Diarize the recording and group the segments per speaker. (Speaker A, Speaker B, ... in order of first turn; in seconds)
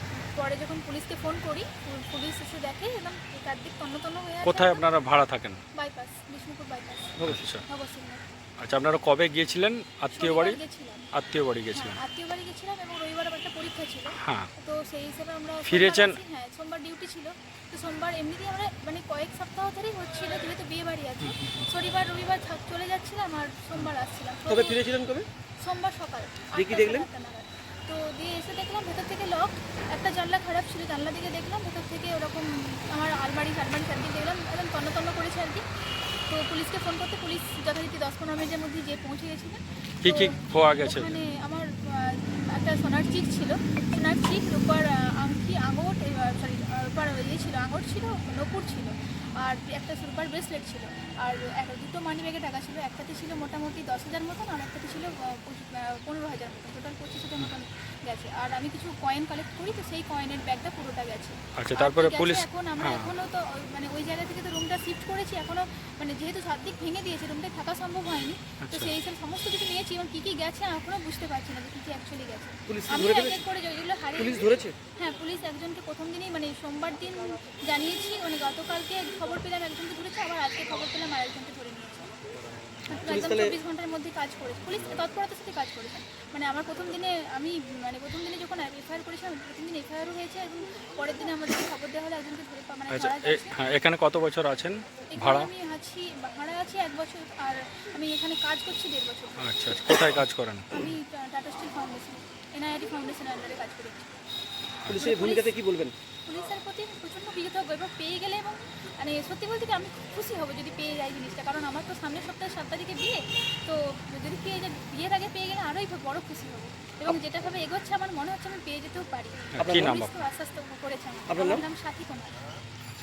Speaker A: 0.2-4.8, 5.7-8.3, 10.1-11.1, 11.7-24.8, 25.6-35.6, 36.3-82.1, 82.9-93.6, 95.1-99.8, 100.7-104.2, 105.0-105.5, 106.2-122.4
Speaker B: 4.4-5.6, 7.2-7.6, 8.6-10.6, 11.1-12.0, 14.1-14.5, 15.6-16.2, 21.2-21.6, 40.0-41.1, 61.6-63.1, 68.6-68.9, 92.9-95.5, 99.4-100.9, 104.8-105.0, 119.5-120.2
Speaker C: 7.2-7.4, 24.5-25.3, 26.5-27.1, 72.7-73.4, 74.2-74.8, 83.0-83.5, 104.9-105.9, 119.6-120.0, 121.3-121.6